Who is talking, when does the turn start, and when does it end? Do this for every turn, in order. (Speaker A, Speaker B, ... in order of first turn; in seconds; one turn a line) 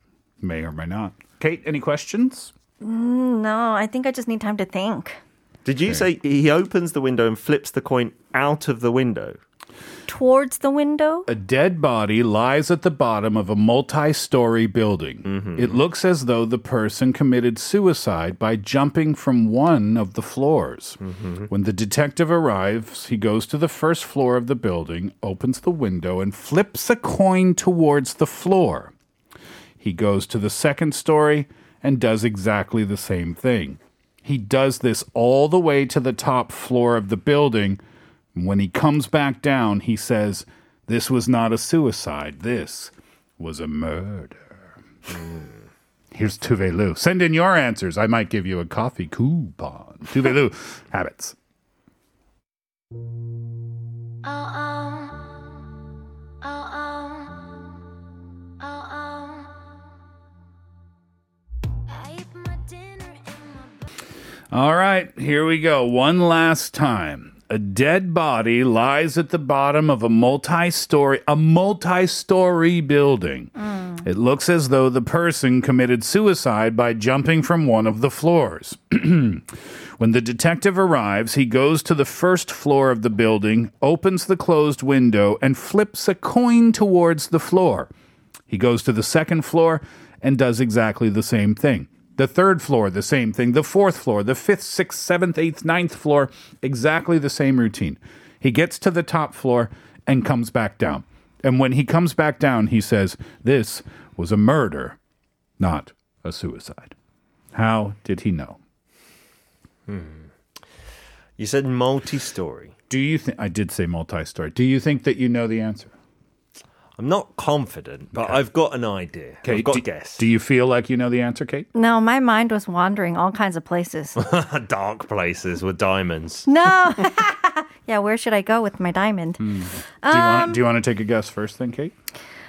Speaker A: 0.4-2.5
Speaker B: 2.8-5.2
Speaker C: 5.6-9.4
Speaker B: 10.1-11.3
Speaker A: 11.3-28.9
Speaker C: 15.2-15.8
Speaker C: 21.0-21.5
Speaker A: 29.8-37.8
Speaker A: 38.3-44.7
Speaker C: 45.1-45.6
Speaker A: 46.1-51.4
Speaker B: 54.4-55.1
Speaker B: 56.4-57.3
Speaker B: 58.6-59.3
Speaker B: 62.1-63.2
Speaker A: 64.5-73.5
Speaker B: 73.6-74.0
Speaker A: 74.0-87.9
Speaker A: 88.5-105.0
Speaker A: 105.6-106.9
Speaker A: 107.5-108.6
Speaker C: 109.9-110.3
Speaker C: 111.4-112.7
Speaker A: 112.9-115.9
Speaker C: 117.0-120.2
Speaker A: 118.1-118.4
Speaker A: 119.4-121.7
Speaker B: 121.7-124.2
Speaker C: 124.2-126.5
Speaker B: 126.5-129.4
Speaker A: 129.4-131.9
Speaker B: 130.0-130.6